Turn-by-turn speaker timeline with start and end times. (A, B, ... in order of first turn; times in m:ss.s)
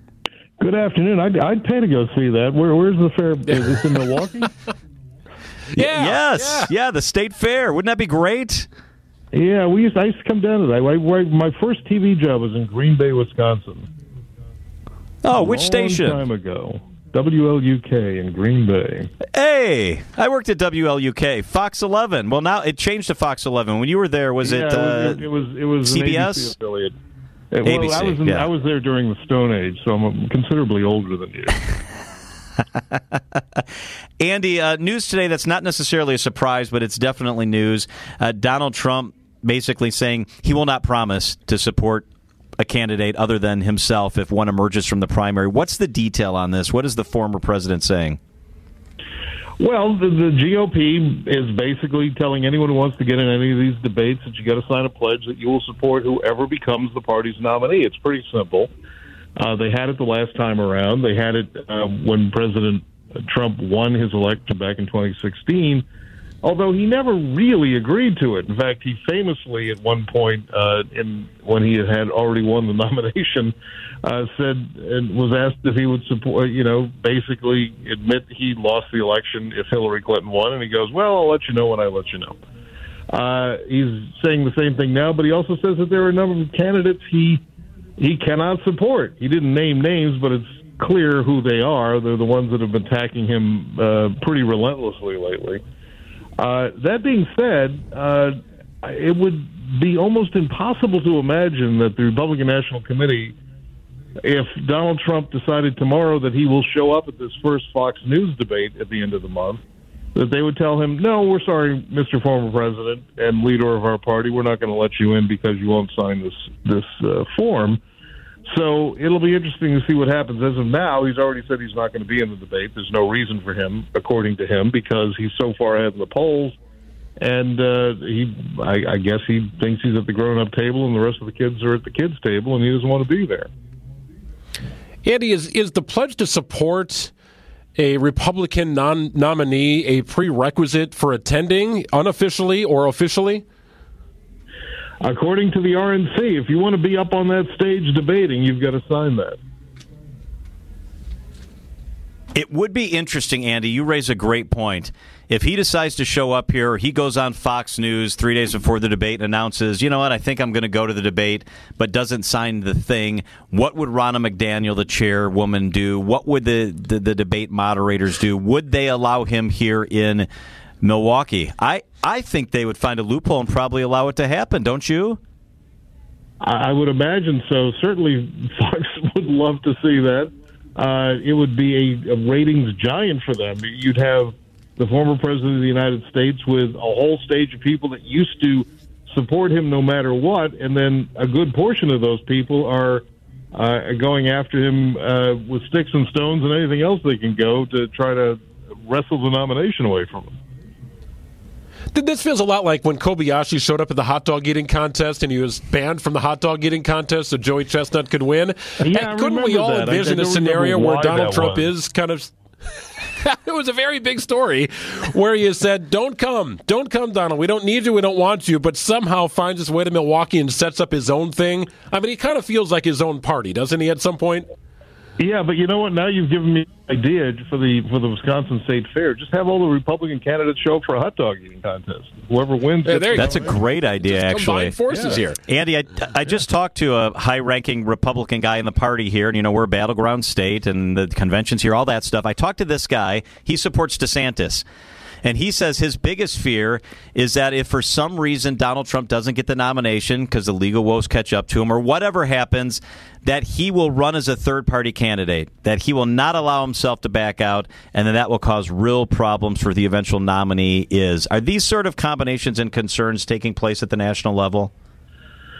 0:00.6-0:04.5 A
0:05.7-0:06.7 B
0:05.7-0:08.7 C
0:09.3-0:13.9 A
0:15.2-0:16.2 C
0:15.3-0:19.1 A
0:19.3-0:25.2 C
0:24.4-0:26.9 A
0:25.8-0:26.5 C
0:27.5-0:31.6 A
0:27.6-0:28.5 C
0:34.2-0:42.0 C
0:42.6-0:48.2 C
0:49.6-0:58.7 A
0:59.4-1:05.8 A
1:06.4-1:22.4 A
1:23.1-1:27.4 A
1:28.0-1:35.6 A
1:36.4-1:43.3 A
1:44.2-1:49.6 A
1:50.1-1:57.8 A
1:58.4-2:06.5 A
2:07.2-2:13.5 A
2:15.0-2:17.1 B
2:17.8-2:23.4 B
2:25.0-2:29.4 A
2:32.3-2:50.3 C
2:50.8-2:55.2 C
2:56.4-3:20.4 A
3:21.9-3:44.4 B
3:28.8-3:31.7 A
3:45.2-3:53.5 A
3:52.8-3:55.3 B
3:53.1-4:04.6 C
4:05.2-4:24.7 C